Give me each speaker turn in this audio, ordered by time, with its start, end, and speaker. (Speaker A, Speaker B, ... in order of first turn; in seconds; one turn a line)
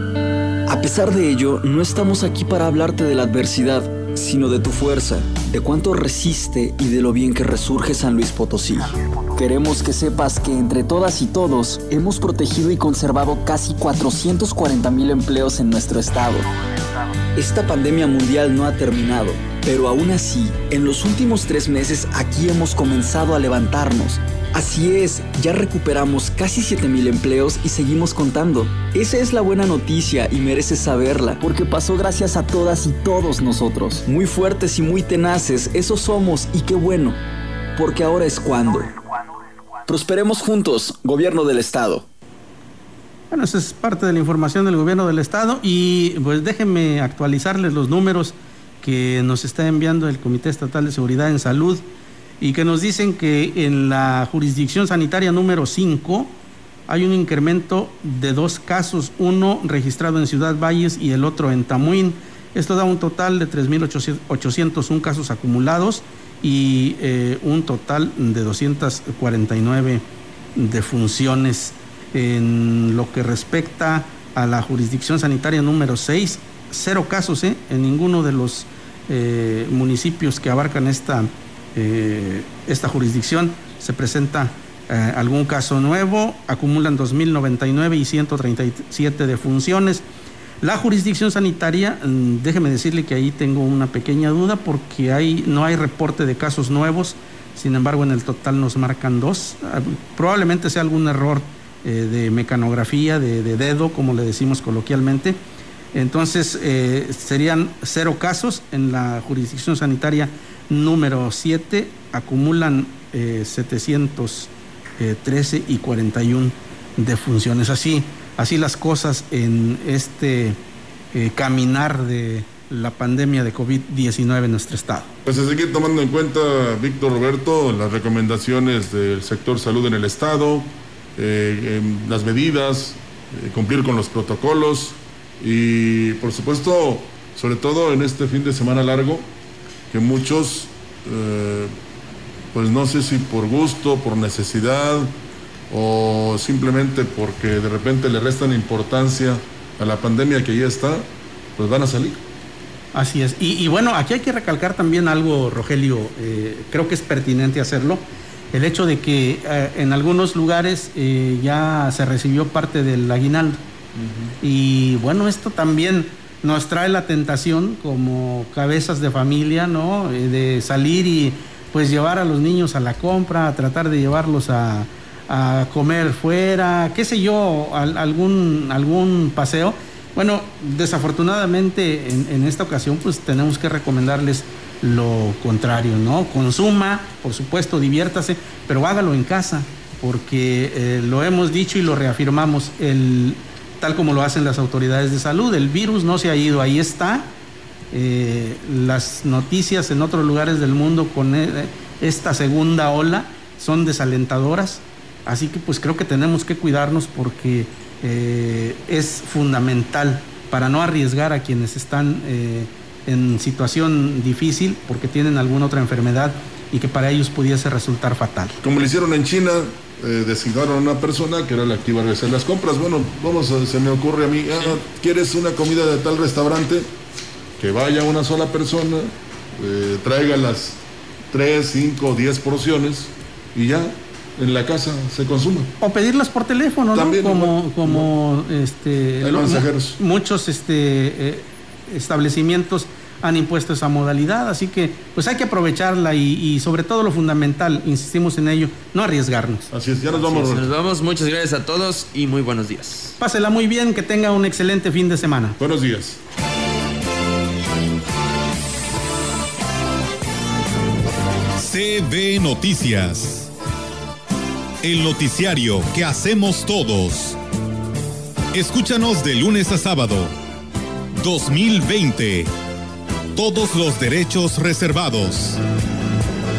Speaker A: 0.7-16.5
Speaker A: 17.4-37.2
Speaker A: 37.8-38.9
Speaker A: 39.9-42.1
Speaker B: 43.3-51.8
Speaker B: 52.4-56.3
Speaker B: 56.9-90.0
Speaker B: 90.6-105.4
Speaker B: 105.9-120.6
Speaker B: 121.1-125.1
Speaker C: 125.2-139.3
Speaker C: 139.9-141.7
Speaker C: 142.5-145.1
Speaker C: 145.7-151.1
Speaker C: 151.6-152.2
Speaker B: 152.9-163.6
Speaker B: 164.4-197.3
Speaker B: 197.9-218.6
Speaker C: 218.6-226.9
Speaker C: 227.6-235.7
Speaker B: 235.8-249.7
Speaker C: 236.9-238.1
Speaker C: 239.2-240.0
Speaker C: 249.7-250.7
Speaker D: 250.1-253.1
Speaker B: 253.2-255.6
Speaker C: 255.6-256.2
Speaker E: 261.6-263.5
Speaker E: 264.8-267.4
Speaker E: 268.5-270.3
Speaker E: 271.2-272.5
Speaker E: 273.4-275.6